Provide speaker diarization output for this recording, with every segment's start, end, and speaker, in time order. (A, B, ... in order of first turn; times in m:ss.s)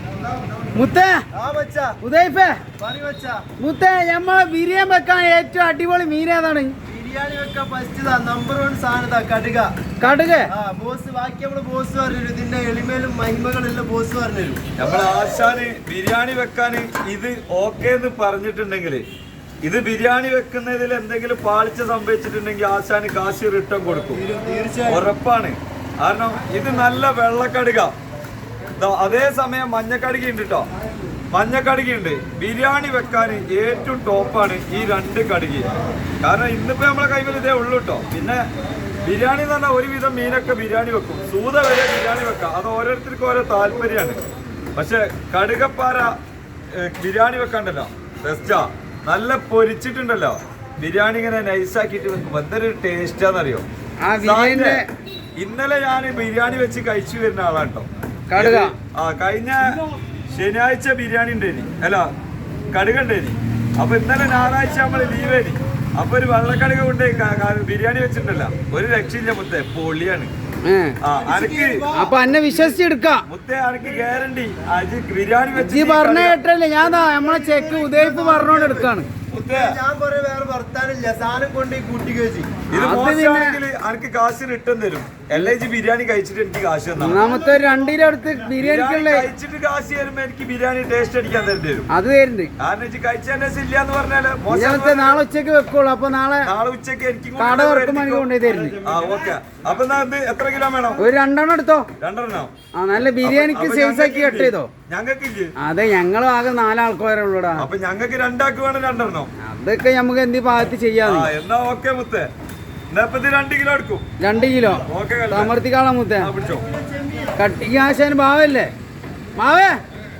0:00.7-0:01.2 A
0:01.3-0:02.0 B
0:02.0-0:02.6 A
0:02.8-0:03.4 B
0:03.6-0:06.7 A
0:06.8-0:09.7 B
0:10.0-0:10.5 A
0:10.5-0:14.6 B
0:14.8-0:19.0 C
0:19.6-0:24.2 C
0:24.1-0:25.1 B
0:24.8-0:27.9 C
0:28.8-0:30.7 C
0:31.3-0:38.4 C
0:39.0-0:44.2 C
0:44.7-0:46.2 C
0:46.7-0:53.6 C
0:54.0-0:54.9 A
0:54.2-0:54.8 C
0:55.4-0:59.8 C
0:58.3-0:58.7 A
1:00.3-1:02.1 C
1:02.7-1:10.3 C
1:10.6-1:11.0 A
1:11.0-1:11.8 C
1:11.2-1:12.2 B
1:11.9-1:13.2 A
1:13.2-1:16.4 C
1:15.5-1:19.1 A
1:16.8-1:22.5 B
1:19.3-1:19.8 C
1:22.7-1:23.6 A
1:22.7-1:27.2 C
1:27.0-1:29.3 A
1:27.1-1:27.9 B
1:28.6-1:31.9 C
1:31.9-1:32.5 A
1:32.6-1:35.2 C
1:34.5-1:36.5 A
1:36.4-1:38.3 C
1:37.4-1:38.8 A
1:38.8-1:41.0 C
1:41.0-1:41.9 A
1:42.0-1:42.5 C
1:42.8-1:44.7 A
1:43.2-1:45.5 C
1:45.6-1:47.6 A
1:47.6-1:49.3 C
1:49.4-1:51.3 A
1:51.0-1:52.3 C
1:52.9-1:54.0 C
1:54.2-1:56.3 A
1:54.9-1:55.5 C
1:56.2-1:56.6 C
1:56.4-1:57.4 B
1:57.4-1:58.7 A
1:59.4-1:59.8 A